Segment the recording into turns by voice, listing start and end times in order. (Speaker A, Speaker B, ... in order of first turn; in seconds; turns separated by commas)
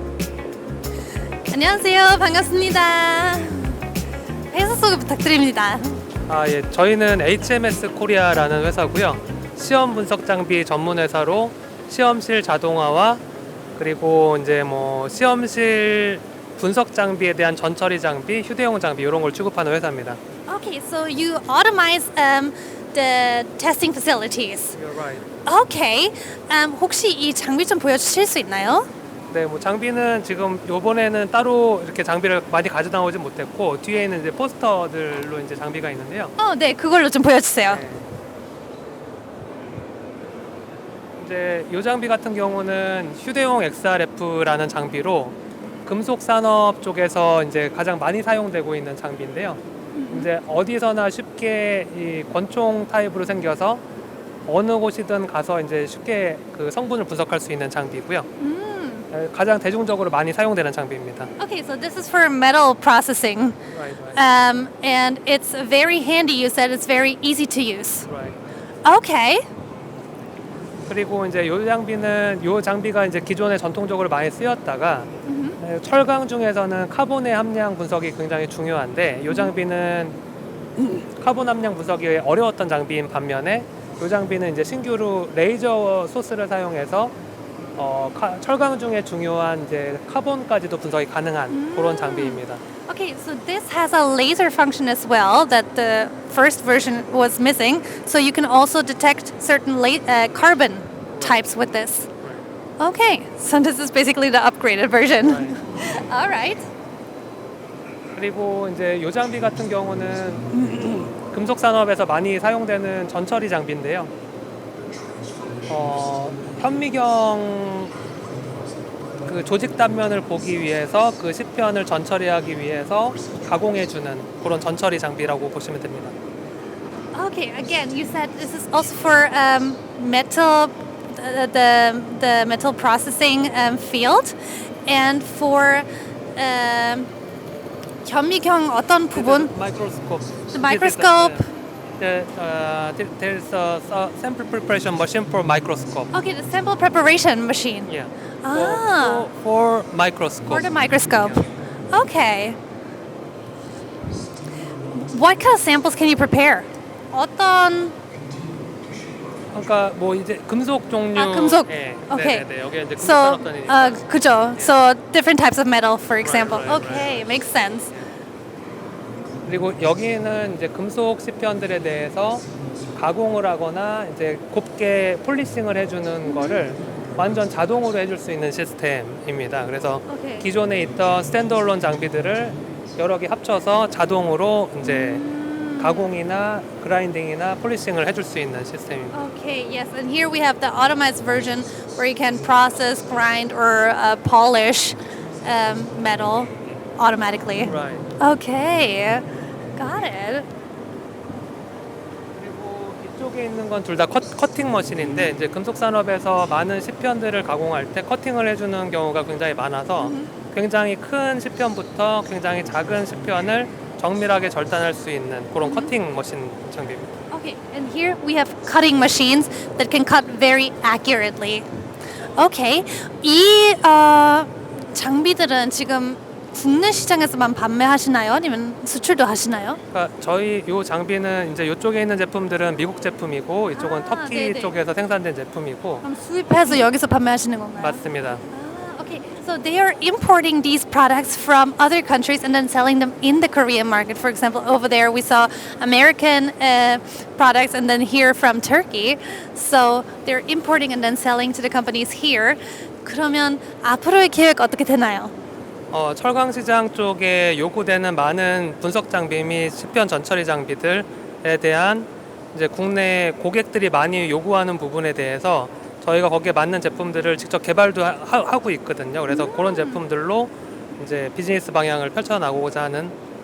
Speaker A: 1.5-3.8, Speaker A: 4.5-6.0, Speaker B: 6.3-13.2, Speaker B: 13.8-20.2, Speaker A: 20.5-24.8, Speaker B: 24.7-25.2, Speaker A: 25.4-28.9, Speaker B: 29.3-36.3, Speaker A: 36.4-37.8, Speaker B: 37.6-38.0, Speaker B: 41.2-53.8, Speaker A: 49.9-50.3, Speaker B: 54.5-58.3, Speaker A: 58.4-59.1, Speaker B: 59.1-61.3, Speaker A: 61.4-63.6, Speaker B: 63.7-64.2, Speaker A: 64.1-68.1, Speaker B: 68.1-68.4, Speaker A: 68.8-69.4, Speaker B: 70.9-75.1, Speaker A: 75.2-75.6, Speaker B: 75.6-80.2, Speaker B: 80.8-87.1, Speaker B: 87.8-92.6, Speaker A: 91.5-102.1, Speaker B: 101.1-101.5, Speaker A: 102.8-106.7, Speaker B: 105.2-105.6, Speaker B: 108.1-114.1, Speaker A: 110.5-111.0, Speaker B: 115.7-117.9, Speaker B: 119.2-126.1, Speaker A: 127.1-137.1, Speaker A: 138.0-139.5, Speaker B: 139.1-141.4, Speaker A: 140.5-141.5, Speaker B: 142.0-146.1, Speaker A: 146.1-147.9, Speaker B: 147.9-151.4, Speaker A: 148.4-149.3, Speaker A: 150.5-152.6, Speaker A: 154.9-157.9, Speaker B: 159.5-164.8, Speaker A: 161.1-167.9, Speaker B: 166.2-167.4, Speaker B: 169.4-185.2, Speaker A: 176.2-176.6, Speaker A: 180.1-180.5, Speaker A: 184.8-186.1, Speaker B: 185.8-189.2, Speaker A: 189.1-200.5, Speaker B: 197.6-198.1, Speaker B: 202.3-217.1, Speaker A: 210.0-210.3, Speaker A: 215.6-215.9, Speaker A: 217.3-221.6, Speaker A: 222.3-229.8, Speaker B: 229.9-236.0, Speaker A: 233.7-234.7, Speaker A: 236.0-255.3, Speaker B: 237.8-238.4, Speaker B: 255.9-273.1, Speaker A: 269.3-270.0